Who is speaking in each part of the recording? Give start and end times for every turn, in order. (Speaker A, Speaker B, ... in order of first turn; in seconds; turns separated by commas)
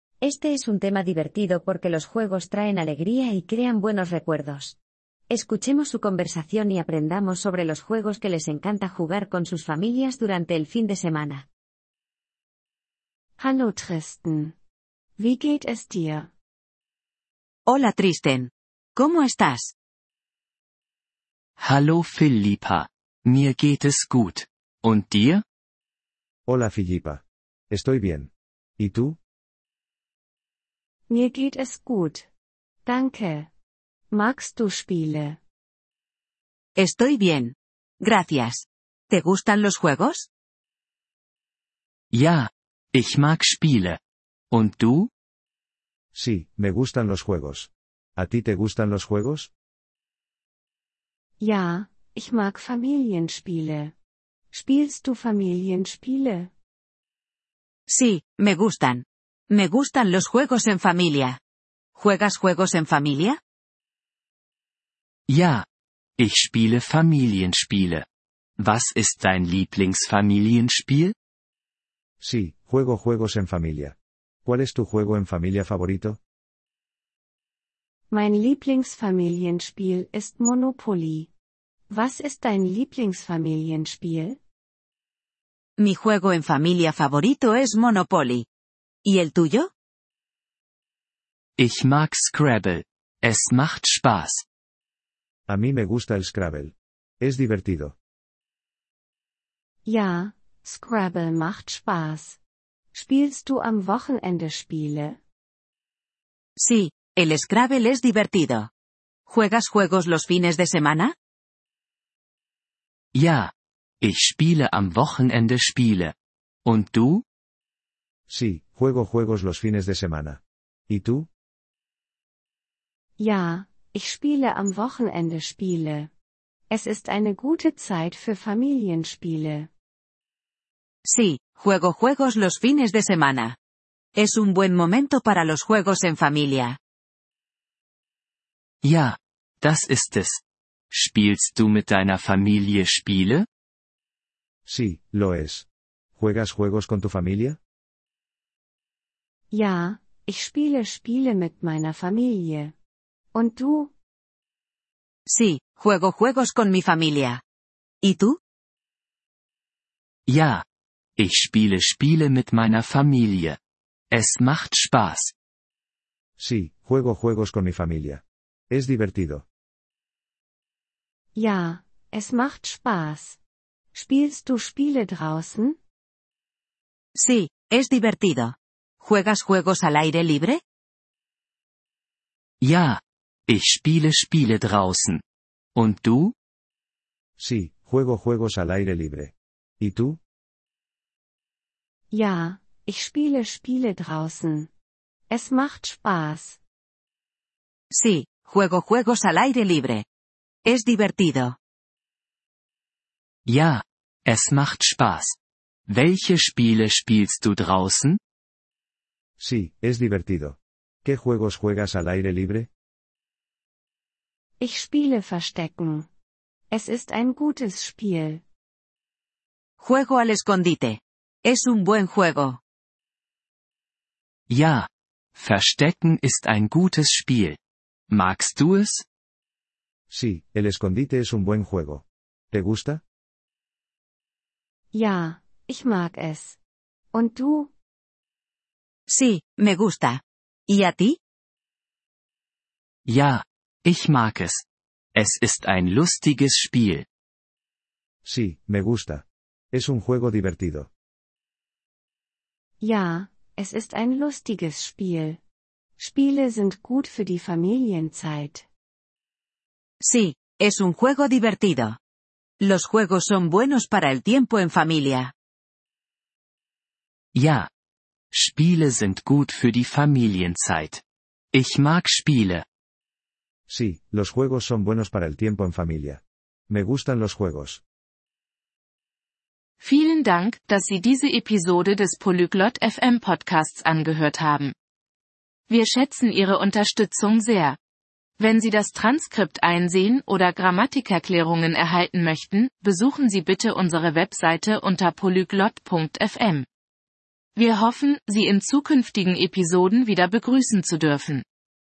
Speaker A: 0.2-4.8, Speaker A: 5.3-11.5, Speaker B: 13.4-14.6, Speaker B: 15.2-16.3, Speaker C: 17.7-19.7, Speaker D: 21.6-25.4, Speaker E: 26.5-29.2, Speaker B: 31.1-32.3, Speaker B: 32.9-33.5, Speaker B: 34.1-35.4, Speaker C: 36.8-40.3, Speaker D: 42.1-44.0, Speaker D: 44.5-45.1, Speaker E: 46.1-49.5, Speaker B: 51.4-53.9, Speaker B: 54.5-56.5, Speaker C: 57.9-61.4, Speaker C: 62.0-63.4, Speaker D: 65.3-65.7, Speaker D: 66.2-68.1, Speaker D: 68.6-71.2, Speaker E: 72.2-76.2, Speaker B: 78.1-81.3, Speaker B: 81.9-84.4, Speaker C: 85.8-88.5, Speaker C: 89.1-89.7, Speaker D: 91.6-94.4, Speaker E: 95.5-98.0, Speaker B: 99.9-102.4, Speaker B: 102.9-105.2, Speaker C: 106.6-108.7, Speaker C: 109.3-111.1, Speaker D: 113.1-116.1, Speaker D: 116.7-117.2, Speaker E: 118.3-121.3, Speaker B: 123.2-126.1, Speaker B: 126.7-129.7, Speaker C: 131.1-133.6, Speaker C: 134.2-136.8, Speaker D: 138.8-140.4, Speaker D: 140.9-143.5, Speaker E: 144.7-147.6, Speaker B: 149.5-152.7, Speaker B: 153.3-153.9, Speaker C: 155.3-157.4, Speaker C: 158.0-158.4, Speaker D: 160.3-160.7, Speaker D: 161.2-163.6, Speaker D: 164.1-165.3, Speaker E: 166.4-169.4, Speaker B: 171.3-173.4, Speaker B: 173.9-175.8, Speaker C: 177.2-180.6, Speaker D: 182.6-185.2, Speaker D: 185.8-186.3, Speaker E: 187.4-190.2, Speaker B: 192.1-194.7, Speaker B: 195.3-196.6, Speaker C: 197.9-200.1, Speaker C: 200.7-201.6, Speaker D: 203.5-205.4, Speaker D: 205.9-208.2, Speaker E: 209.4-212.7, Speaker B: 214.6-216.1, Speaker B: 216.7-218.4, Speaker C: 219.8-222.6, Speaker D: 224.5-227.6, Speaker D: 228.1-229.1, Speaker E: 230.1-233.0, Speaker B: 234.9-236.6, Speaker B: 237.1-237.7, Speaker C: 239.1-241.2, Speaker D: 243.1-244.6, Speaker D: 245.2-247.1, Speaker E: 248.3-250.9, Speaker B: 252.8-255.4, Speaker B: 256.0-258.7, Speaker C: 260.0-262.0, Speaker C: 262.6-265.3, Speaker D: 267.3-267.7, Speaker D: 268.3-272.6, Speaker E: 273.7-277.8, Speaker F: 279.8-284.7, Speaker F: 285.7-287.8, Speaker F: 288.4-296.7, Speaker F: 297.6-301.4